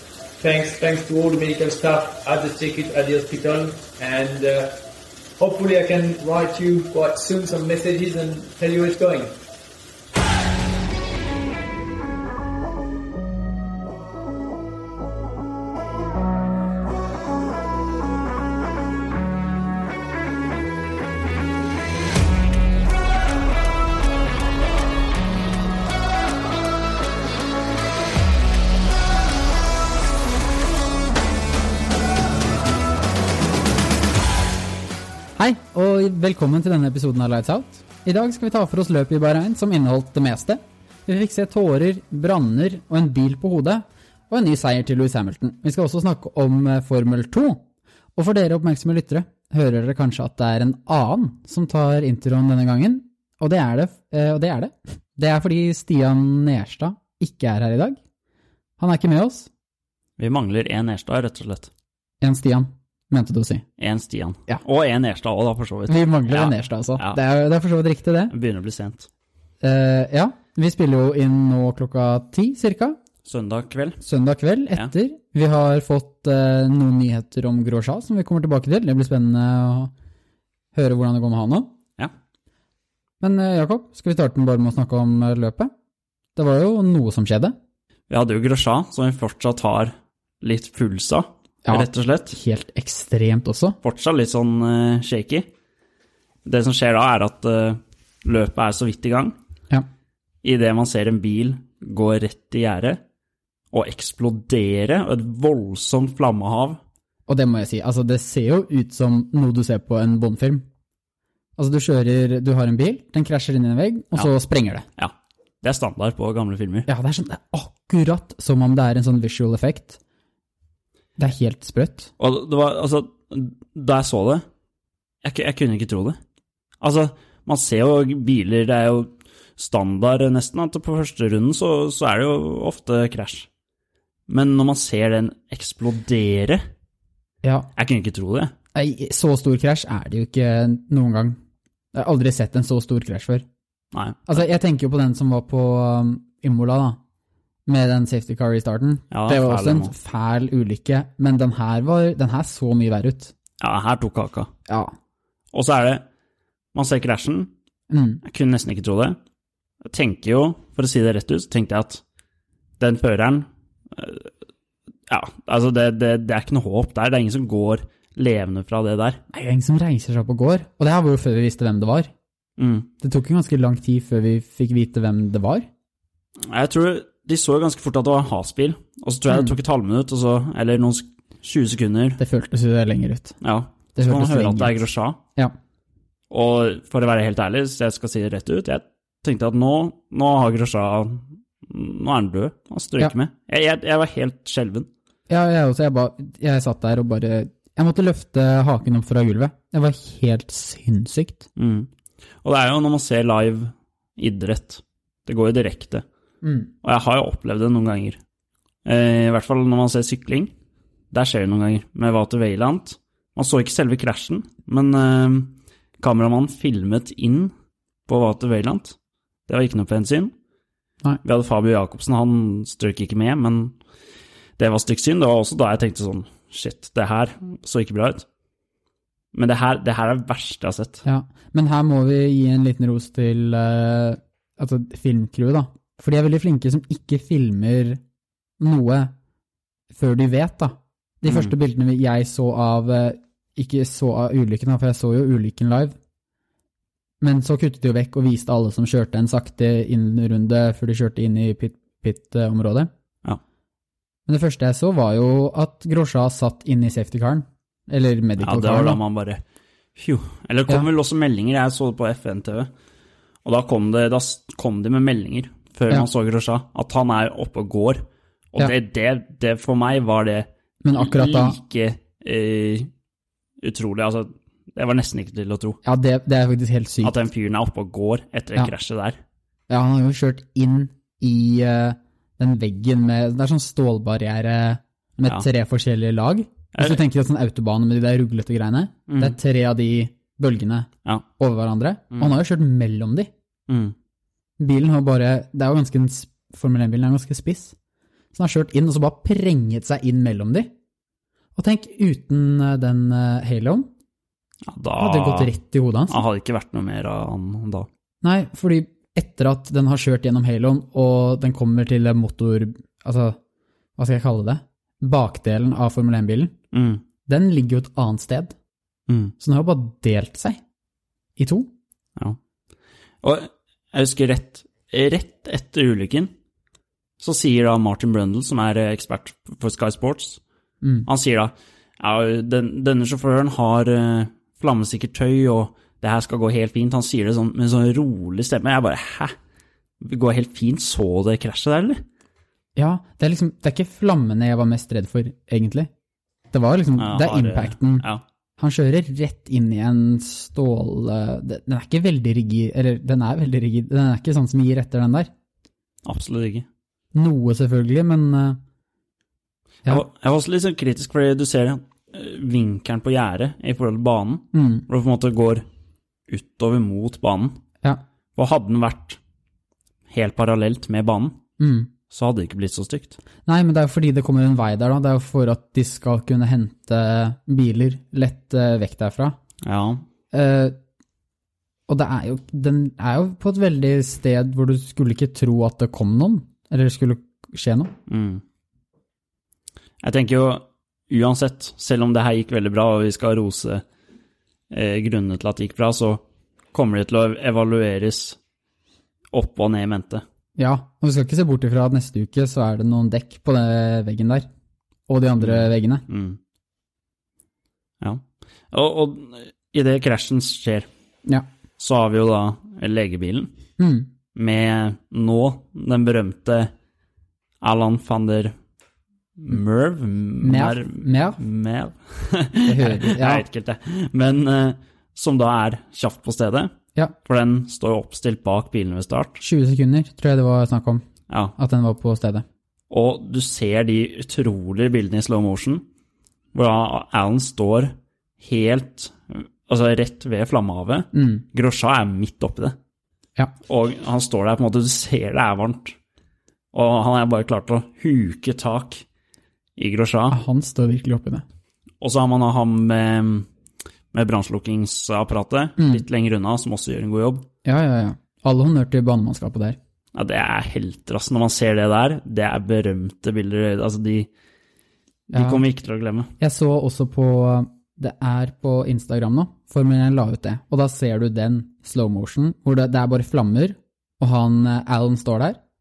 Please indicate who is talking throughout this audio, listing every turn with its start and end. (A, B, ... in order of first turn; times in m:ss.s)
0:00.4-0:04.8 A
0:05.4-0:09.4 A
0:35.4-0:47.6 B
0:48.2-0:58.0 B
0:58.8-0:59.5 B
1:00.2-1:01.7 C
1:02.2-1:03.7 B
1:03.8-1:07.2 C
1:05.9-1:08.3 B
1:08.3-1:09.1 C
1:09.6-1:13.0 B
1:13.2-1:14.0 C
1:14.0-1:19.9 B
1:20.7-1:21.8 B
1:23.2-1:25.7 B
1:26.4-1:27.6 B
1:28.1-1:32.4 C
1:31.6-1:33.8 B
1:33.8-1:35.5 C
1:36.4-1:39.4 C
1:40.4-1:43.0 C
1:43.7-1:46.8 C
1:47.3-1:50.7 B
1:51.6-1:54.9 B
1:55.0-1:56.9 C
1:56.9-2:00.0 B
2:01.2-2:02.1 B
2:02.2-2:04.4 C
2:05.2-2:06.2 C
2:06.8-2:13.5 C
2:14.3-2:16.6 C
2:17.4-2:17.7 B
2:17.8-2:18.5 C
2:18.8-2:21.4 B
2:21.9-2:23.5 B
2:23.9-2:24.4 C
2:24.3-2:27.0 B
2:27.7-2:33.3 B
2:29.1-2:29.9 C
2:33.6-2:34.5 C
2:34.7-2:34.9 B
2:35.5-2:36.0 C
2:36.7-2:37.5 C
2:37.9-2:38.2 B
2:38.2-2:39.2 C
2:39.8-2:42.0 C
2:42.8-2:44.3 C
2:45.1-2:49.2 C
2:49.3-2:52.1 B
2:52.6-2:52.9 C
2:53.0-2:55.7 B
2:56.4-3:02.2 C
2:59.3-2:59.6 B
3:02.2-3:03.4 B
3:03.4-3:05.2 C
3:03.9-3:04.8 B
3:06.3-3:14.9 C
3:15.3-3:21.5 B
3:21.6-3:21.9 C
3:22.4-3:26.0 C
3:26.4-3:26.7 B
3:26.8-3:28.2 C
3:28.8-3:30.5 C
3:31.1-3:37.5 C
3:38.1-3:39.0 C
3:39.5-3:40.3 C
3:41.2-3:43.8 C
3:44.6-3:48.3 C
3:49.3-3:51.0 C
3:51.0-3:58.0 B
3:58.6-3:59.1 B
3:59.9-4:06.0 B
4:01.3-4:01.5 C
4:07.2-4:12.9 B
4:14.3-4:19.0 B
4:18.4-4:19.4 C
4:20.0-4:22.7 C
4:23.4-4:32.9 C
4:30.8-4:31.6 B
4:33.6-4:35.8 C
4:35.8-4:37.2 B
4:37.0-4:39.2 C
4:39.7-4:53.3 B
4:46.7-4:47.0 C
4:49.1-4:49.4 C
4:53.7-4:54.0 C
4:54.6-4:57.8 B
4:58.3-5:00.7 B
5:01.6-5:03.9 B
5:04.7-5:05.5 C
5:05.0-5:06.2 B
5:06.1-5:07.9 C
5:08.2-5:13.4 B
5:14.0-5:16.6 B
5:16.7-5:17.0 C
5:17.3-5:18.6 B
5:19.1-5:19.3 C
5:19.4-5:20.6 B
5:21.4-5:21.7 B
5:23.2-5:26.3 C
5:27.2-5:30.4 C
5:30.8-5:31.1 B
5:31.1-5:39.3 C
5:40.0-5:42.0 C
5:42.8-5:45.9 B
5:46.5-5:48.1 B
5:47.0-5:48.2 C
5:48.6-5:55.3 B
5:56.0-5:56.7 C
5:57.1-5:58.6 B
5:59.9-6:05.6 C
6:04.5-6:04.9 B
6:06.3-6:07.6 C
6:08.4-6:09.2 C
6:10.1-6:11.4 C
6:11.6-6:11.9 B
6:12.1-6:13.2 C
6:13.5-6:19.4 B
6:19.6-6:20.0 C
6:20.3-6:20.8 B
6:21.9-6:27.9 B
6:28.1-6:28.4 C
6:30.0-6:33.8 C
6:34.7-6:38.4 C
6:39.3-6:40.2 C
6:40.6-6:44.5 B
6:45.1-6:46.1 B
6:45.4-6:46.4 C
6:48.0-6:50.9 C
6:51.8-6:53.5 C
6:53.8-6:54.1 B
6:54.3-6:56.7 C
6:57.6-6:58.5 C
6:59.4-7:06.7 C
7:00.4-7:01.4 B
7:02.7-7:03.4 B
7:07.2-7:09.4 C
7:09.4-7:11.0 B
7:11.3-7:11.5 C
7:11.6-7:12.4 B
7:12.9-7:15.8 C
7:16.5-7:22.8 C
7:21.1-7:21.4 B
7:23.7-7:26.0 C
7:26.7-7:29.0 C
7:29.8-7:30.4 C
7:30.3-7:31.4 B
7:32.0-7:33.5 C
7:34.1-7:37.5 C
7:35.8-7:36.0 B
7:37.6-7:39.8 B
7:40.1-7:44.3 C
7:45.3-7:46.3 C
7:45.3-7:45.6 B
7:46.4-7:55.6 B